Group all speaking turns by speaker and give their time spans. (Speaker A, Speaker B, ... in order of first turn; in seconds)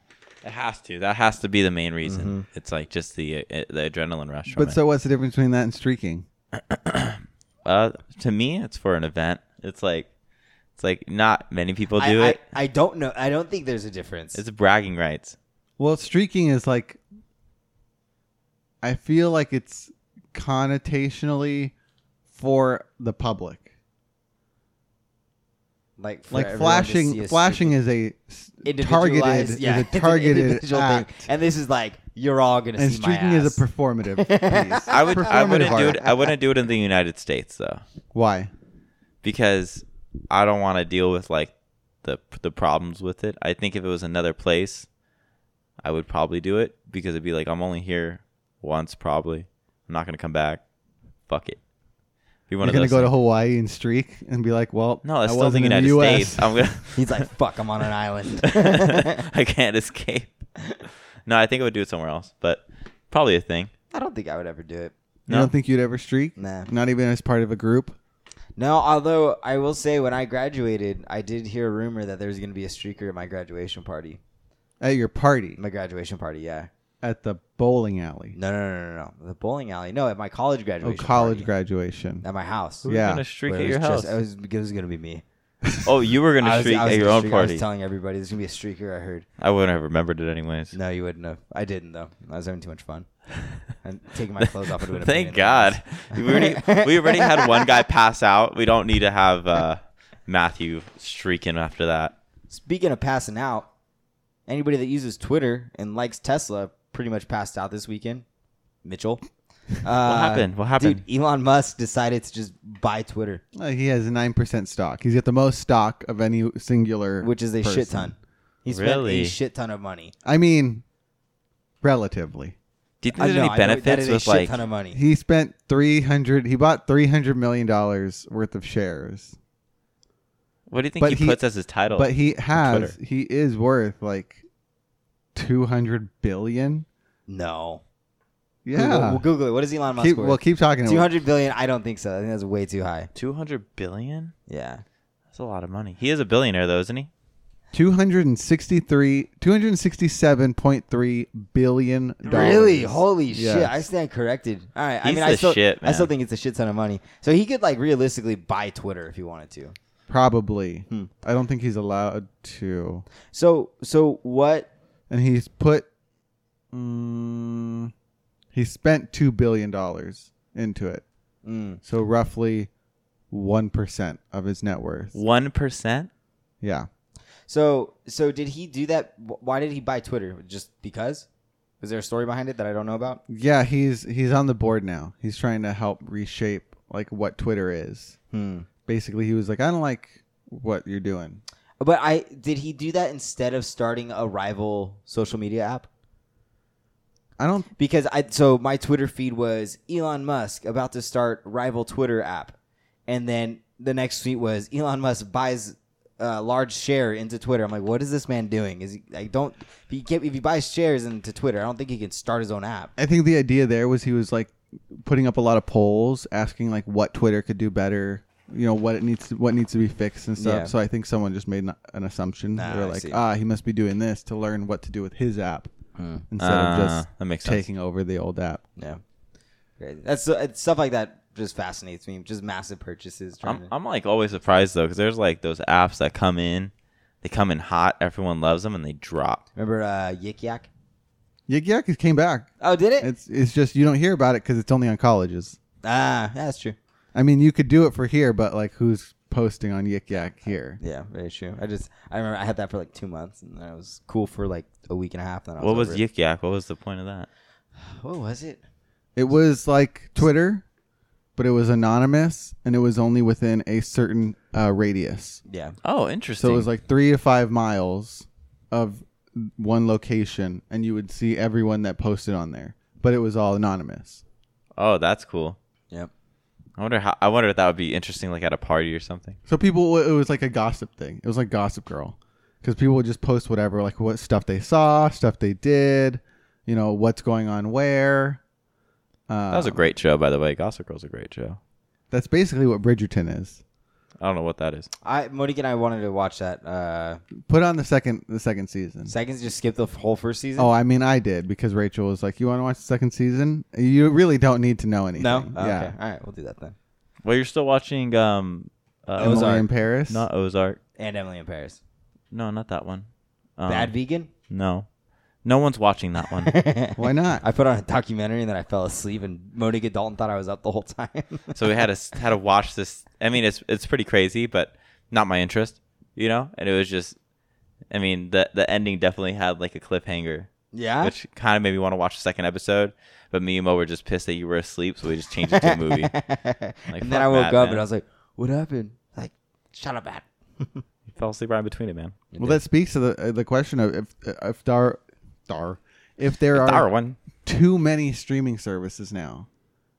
Speaker A: 0.4-4.8, 6.6-10.1, 10.8-12.4, 14.3-15.3, 34.9-37.8, 39.2-44.9, 45.8-50.6, 51.3-51.6, 52.5-53.1, 55.0-57.2, 58.6-60.5, 61.2-63.7, 82.8-84.1, 85.8-87.6, 89.4-90.8, 94.8-102.1, 110.0-111.0, 118.7-119.3, 123.0-124.6, 130.7-132.9, 143.1-144.3, 145.3-147.1, 155.0-156.1, 175.1-176.1, 226.4-227.6, 233.4-239.4, 255.6-257.3, 265.8-266.7, 274.8-275.6, 276.8-279.4, 289.5-291.6, 294.2-294.9, 307.2-310.8, 312.3-313.9, 314.5-314.9, 315.4-316.5, 321.5-327.1, 327.9-330.5, 331.0-336.1, 336.9-337.8, 341.1-342.1, 346.5-347.2
Speaker B: 2.0-2.4, 12.0-14.4, 26.0-27.7, 28.6-33.6, 34.2-36.3, 57.0-59.2, 63.9-64.9, 66.4-66.7, 68.6-74.2, 75.6-76.7, 78.3-81.5, 82.2-82.8, 83.5-85.2, 86.4-89.2, 90.7-97.7, 102.5-103.7, 104.5-108.2, 108.8-113.4, 117.2-120.1, 123.2-125.0, 137.3-137.8, 138.7-143.1, 144.5-144.8, 152.2-159.7, 163.3-164.7, 171.4-171.8, 177.5-181.2, 181.8-183.2, 188.3-188.7, 191.8-195.9, 197.8-202.6, 203.1-212.9, 220.4-220.7, 222.6-223.2, 226.0-226.2, 229.8-233.7, 239.6-240.7, 242.6-243.1, 245.8-246.8, 250.8-256.0, 257.9-258.6, 265.5-265.8, 295.0-297.2, 299.1-300.7, 305.2-306.8, 309.2-309.6, 311.0-311.8, 313.7-314.3, 316.4-321.8, 330.7-331.1, 335.4-340.8, 342.3-342.6
Speaker C: 4.5-6.2, 15.8-17.0, 18.8-21.7, 22.3-23.7, 26.3-31.3, 32.8-36.0, 38.1-38.5, 52.6-56.7, 65.3-68.0, 74.8-75.6, 77.0-78.3, 80.8-82.2, 82.8-83.2, 113.5-118.1, 120.2-120.8, 121.8-122.5, 124.9-129.3, 131.0-131.4, 131.9-134.4, 135.3-136.8, 138.6-139.2, 140.0-141.1, 147.7-153.8, 160.1-163.1, 165.1-165.9, 166.7-167.9, 168.5-171.0, 171.8-172.7, 173.3-175.1, 176.6-176.9, 183.3-188.2, 188.8-191.4, 197.4-197.7, 213.0-225.7, 226.3-228.6, 241.5-242.5, 243.0-245.6, 247.1-250.8, 259.1-260.6, 261.4-265.4, 266.4-274.2, 279.5-288.4, 289.3-289.8, 292.1-293.6, 297.4-299.1, 300.6-305.9, 309.2-310.3, 317.0-317.4, 342.4-346.9, 347.4-349.5